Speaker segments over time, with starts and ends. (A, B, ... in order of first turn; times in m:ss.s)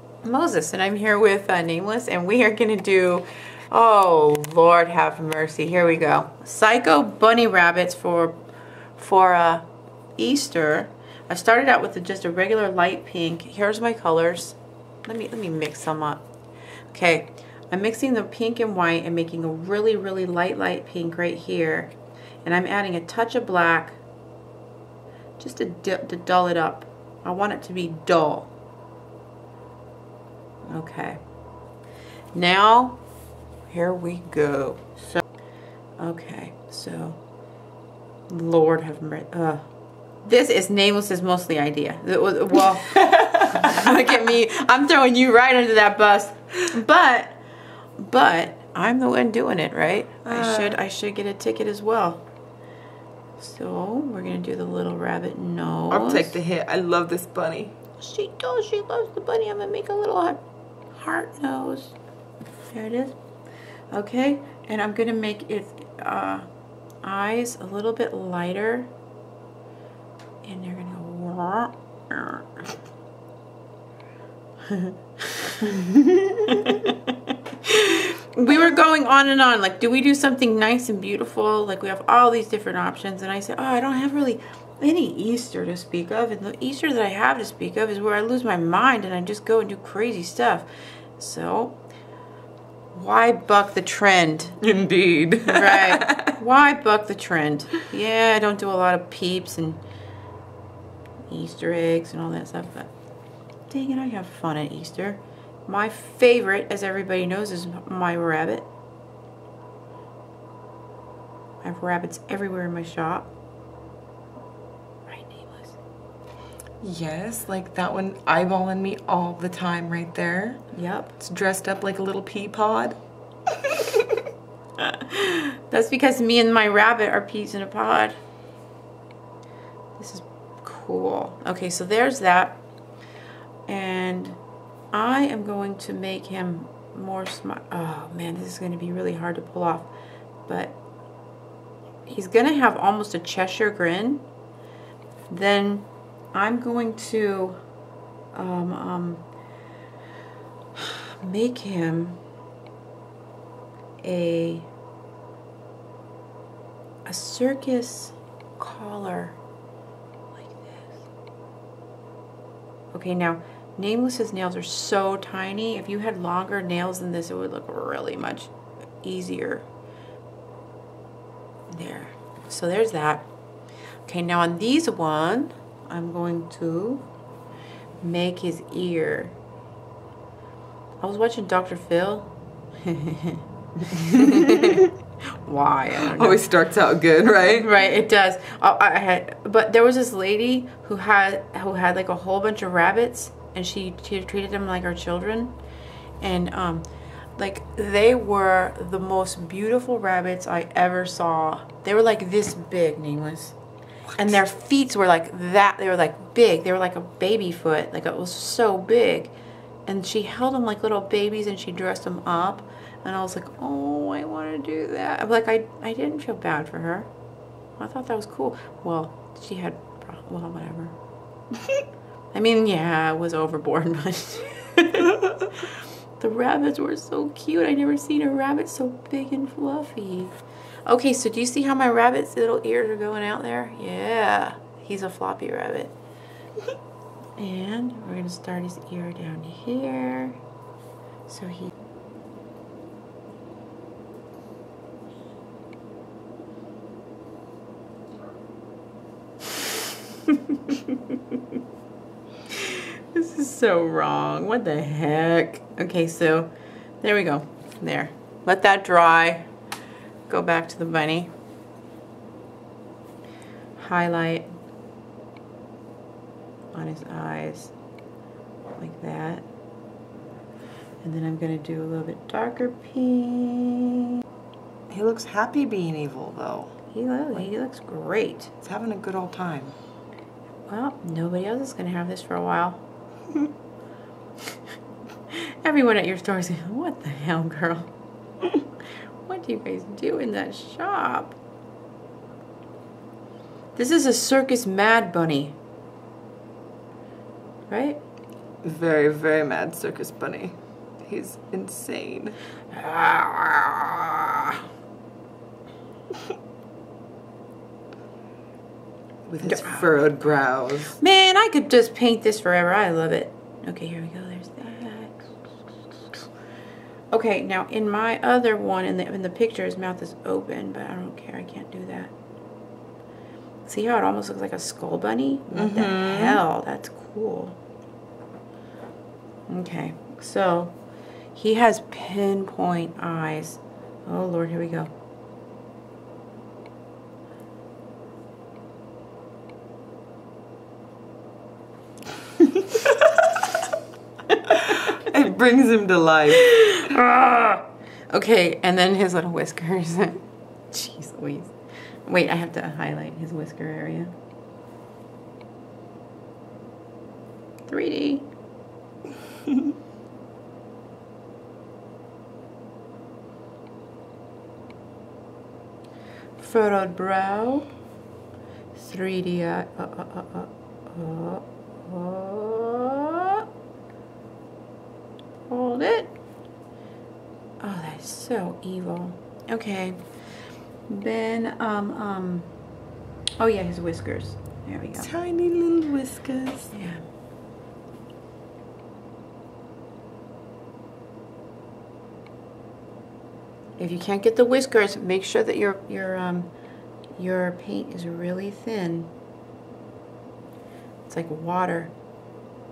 0:00.2-0:08.4 A
0:09.0-0:16.2 A
0:16.9-0:24.0 A
0:25.4-0:28.5 A
0:30.7-0:31.2 A
0:32.3-0:33.0 A
0:33.7-0:34.9 A
0:36.0-0:37.2 A
0:38.3-0:39.7 A
0:40.2-0:47.4 A
0:48.0-0:52.2 A
0:50.2-0:50.8 B
0:53.4-0:56.4 A
0:55.9-0:57.7 B
0:58.0-1:00.4 A
1:00.9-1:02.0 A
1:02.7-1:03.2 A
1:03.9-1:06.5 A
1:07.0-1:08.9 A
1:10.4-1:12.6 A
1:14.6-1:30.7 A
1:31.2-1:31.8 A
1:32.9-1:34.6 A
1:34.6-1:36.4 B
1:35.4-1:39.8 A
1:41.3-1:42.9 A
1:43.7-1:48.7 A
1:51.6-1:53.3 A
1:55.1-1:55.8 A
1:56.8-2:00.6 B
2:00.7-2:01.1 A
2:01.2-2:03.0 B
2:03.6-2:04.2 B
2:04.8-2:08.2 A
2:10.0-2:12.6 A
2:13.7-2:14.4 A
2:14.9-2:19.9 A
2:20.5-2:20.8 A
2:22.1-2:24.2 A
2:25.3-2:27.6 A
2:28.3-2:29.2 A
2:30.7-2:32.2 A
2:34.0-2:34.7 A
2:37.0-2:39.4 A
2:40.3-2:41.0 A
2:42.9-2:49.6 A
2:51.7-2:53.3 A
2:54.0-2:57.0 A
2:58.0-2:59.4 A
3:01.0-3:02.3 A
3:02.8-3:06.4 A
3:04.2-3:04.8 B
3:05.9-3:07.7 B
3:07.5-3:15.5 A
3:16.2-3:23.6 A
3:24.2-3:29.3 A
3:29.9-3:37.1 A
3:37.8-3:41.0 A
3:42.3-3:55.9 A
3:57.4-4:00.4 A
4:01.3-4:01.7 A
4:10.3-4:11.2 A
4:12.5-4:19.5 A
4:20.3-4:21.3 A
4:23.8-4:24.5 A
4:26.7-4:27.7 A
4:28.8-4:29.4 A
4:31.0-4:34.1 A
4:34.9-4:36.7 B
4:36.9-4:38.5 A
4:38.6-4:39.7 B
4:40.7-4:42.8 A
4:45.3-4:47.9 A
4:49.2-4:51.4 A
4:53.7-4:55.5 A
4:57.7-4:58.0 A
4:58.6-5:02.4 B
5:02.7-5:04.6 A
5:09.3-5:11.0 B
5:09.4-5:09.8 A
5:11.0-5:15.4 A
5:16.0-5:16.2 A
5:17.1-5:22.1 A
5:23.6-5:27.6 A
5:25.5-5:26.4 B
5:29.5-5:30.7 A
5:31.3-5:34.9 A
5:44.5-5:46.5 B
5:46.3-5:51.5 A
5:52.0-5:54.1 A
5:57.7-5:58.3 A
6:06.4-6:07.7 A
6:08.7-6:13.4 A
6:15.5-6:16.1 A
6:17.6-6:20.0 A
6:20.9-6:22.5 A
6:23.4-6:25.1 A
6:25.0-6:26.7 B
6:26.7-6:27.0 A
6:33.8-6:36.5 A
6:37.2-6:39.1 A
6:41.1-6:41.9 A